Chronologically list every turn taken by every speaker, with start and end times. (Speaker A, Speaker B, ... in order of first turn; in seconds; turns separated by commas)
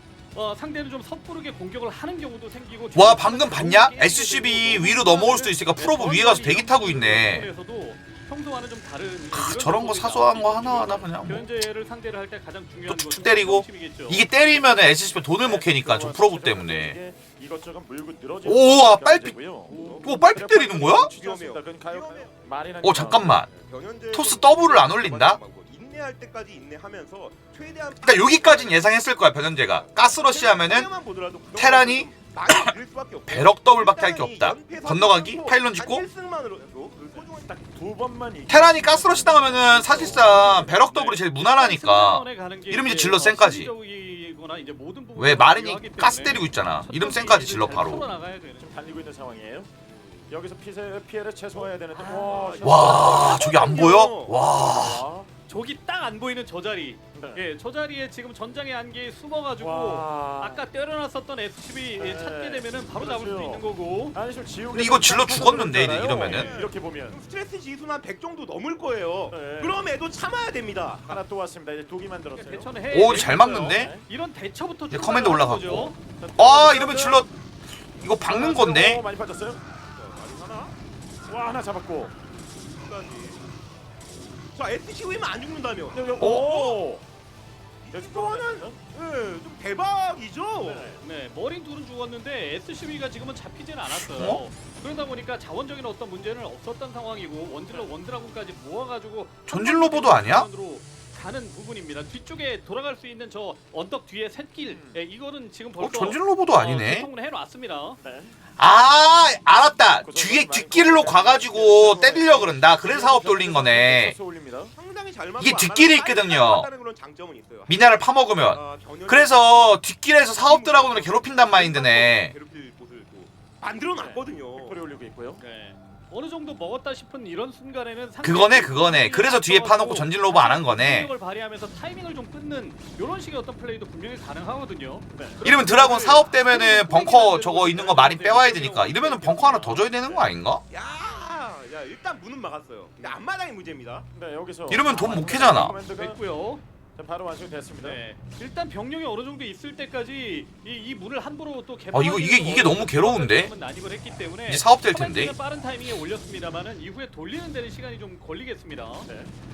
Speaker A: 0.3-14.2, Speaker B: 3.0-7.5, Speaker B: 9.3-11.5, Speaker B: 12.9-17.0, Speaker C: 15.4-23.4, Speaker B: 18.4-19.4, Speaker A: 19.7-20.1, Speaker D: 19.7-22.4, Speaker B: 20.0-21.1, Speaker B: 22.8-23.5, Speaker D: 23.5-28.9, Speaker B: 24.1-25.4, Speaker B: 28.0-30.9, Speaker D: 29.7-37.7, Speaker B: 31.5-32.7, Speaker B: 33.3-36.0, Speaker C: 37.6-40.8, Speaker B: 38.5-43.7, Speaker A: 40.1-48.7, Speaker B: 45.2-48.0, Speaker C: 48.6-49.7, Speaker D: 49.9-50.3, Speaker C: 50.3-53.5, Speaker D: 52.0-54.4, Speaker A: 52.0-52.6, Speaker B: 52.6-55.0, Speaker C: 54.7-55.3, Speaker A: 55.5-64.2, Speaker C: 57.1-57.4, Speaker C: 59.6-60.6, Speaker C: 62.0-67.2, Speaker B: 64.7-66.5, Speaker D: 66.1-71.2, Speaker C: 69.3-69.8, Speaker C: 71.0-72.7, Speaker A: 72.4-76.0, Speaker B: 72.9-73.9, Speaker C: 73.3-74.0, Speaker B: 74.9-77.3, Speaker C: 76.2-77.2, Speaker B: 77.9-79.0, Speaker C: 78.2-79.6, Speaker D: 79.9-80.8, Speaker C: 81.3-82.1, Speaker D: 82.6-83.4, Speaker D: 84.5-86.1, Speaker C: 85.9-87.0, Speaker B: 86.2-86.6, Speaker D: 87.8-91.0, Speaker C: 87.9-88.8, Speaker C: 90.6-91.0, Speaker A: 91.0-108.0, Speaker B: 93.9-94.4, Speaker B: 99.5-100.5, Speaker C: 104.7-105.0, Speaker B: 105.8-107.1, Speaker C: 108.0-108.3, Speaker B: 108.6-114.2, Speaker C: 110.0-114.7, Speaker D: 111.5-112.6, Speaker D: 114.7-119.8, Speaker B: 115.4-116.7, Speaker B: 117.7-122.3, Speaker D: 120.3-124.8, Speaker C: 124.0-125.4, Speaker A: 125.4-139.9, Speaker B: 128.2-131.1, Speaker C: 135.1-135.5, Speaker B: 135.4-140.6, Speaker D: 140.7-144.1, Speaker C: 144.1-146.2, Speaker B: 144.7-145.8, Speaker A: 145.5-146.6, Speaker C: 147.0-148.0, Speaker A: 147.8-159.1, Speaker B: 151.9-153.5, Speaker B: 154.5-155.4, Speaker C: 159.1-159.3